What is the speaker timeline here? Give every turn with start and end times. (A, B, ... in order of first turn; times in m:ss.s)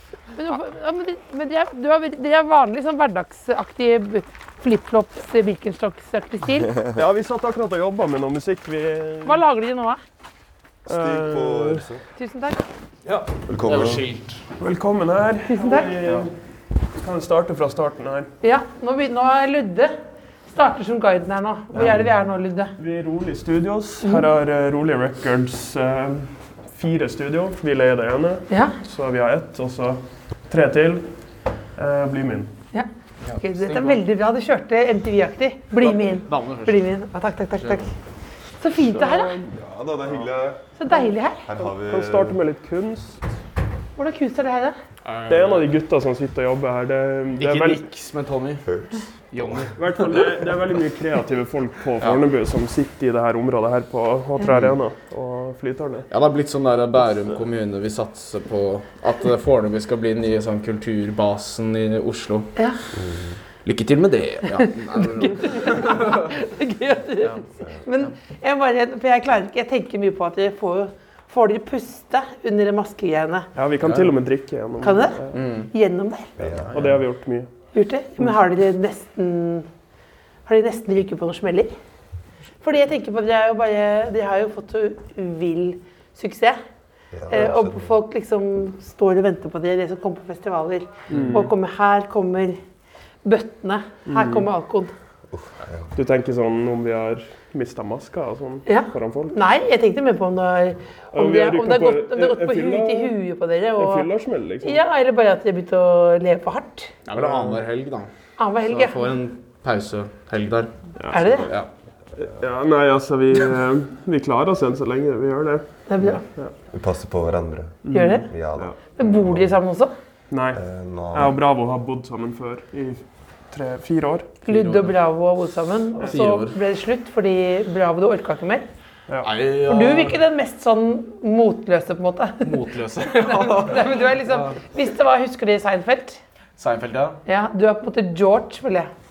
0:00.3-0:06.7 A
0:06.9-0:09.4 B
0:09.2-0:10.0 A
0:10.8-0:12.0 C
0:10.9-0:11.8 B
0:12.2-0:12.6 A
0:13.0-0:14.4 D
0:13.5-0:14.0 C
0:14.6-0:16.3 B
0:15.5-0:15.9 A
0:17.0-0:18.3 B
0:18.4-0:19.9 A
0:20.5-0:22.7 A
0:22.8-0:31.1 B
0:28.5-0:28.8 A
0:31.8-0:32.5 B
0:32.7-0:37.9 A
0:33.2-0:34.0 D
0:35.8-0:36.9 D
0:37.5-0:37.9 D
0:38.6-0:39.3 A
0:38.9-0:39.3 B
0:39.3-0:40.6 C
0:40.8-0:41.4 A
0:41.4-0:42.4 C
0:41.7-0:43.2 B
0:44.0-0:44.8 A
0:45.0-0:45.7 D
0:45.3-0:47.8 B
0:47.4-0:48.6 D
0:48.6-0:49.7 C
0:49.3-0:50.4 D
0:49.8-0:56.1 B
0:54.5-0:54.7 D
0:56.1-1:02.5 D
1:03.0-1:03.4 C
1:03.6-1:06.3 D
1:04.6-1:13.5 A
1:13.6-1:15.4 B
1:13.8-1:14.1 D
1:14.8-1:15.2 A
1:15.3-1:15.7 D
1:15.7-1:16.3 A
1:16.4-1:16.8 C
1:16.7-1:17.5 B
1:17.7-1:19.7 A
1:20.4-1:21.7 A
1:22.6-1:26.6 A
1:27.1-1:28.0 C
1:27.3-1:32.6 A
1:31.1-1:31.5 B
1:33.2-1:34.9 A
1:34.1-1:34.5 B
1:35.3-1:35.9 C
1:35.9-1:39.4 B
1:38.6-1:44.1 A
1:41.1-1:43.2 B
1:43.8-1:44.8 B
1:44.6-1:46.9 A
1:47.0-1:48.1 D
1:47.1-1:47.6 B
1:48.4-1:49.0 A
1:48.6-1:50.7 D
1:51.0-1:51.4 B
1:51.1-1:51.5 A
1:51.3-1:51.7 D
1:52.2-1:55.6 B
1:55.9-1:56.2 A
1:56.7-1:59.6 C
1:57.8-1:58.8 B
1:57.9-1:58.3 A
1:59.0-1:59.9 A
2:00.3-2:04.3 B
2:00.5-2:01.4 C
2:04.4-2:08.7 A
2:04.5-2:05.0 D
2:06.1-2:06.5 D
2:09.1-2:09.3 B
2:09.2-2:10.2 D
2:09.7-2:12.5 A
2:12.4-2:14.6 D
2:13.1-2:16.2 A
2:16.6-2:17.2 D
2:17.2-2:18.9 A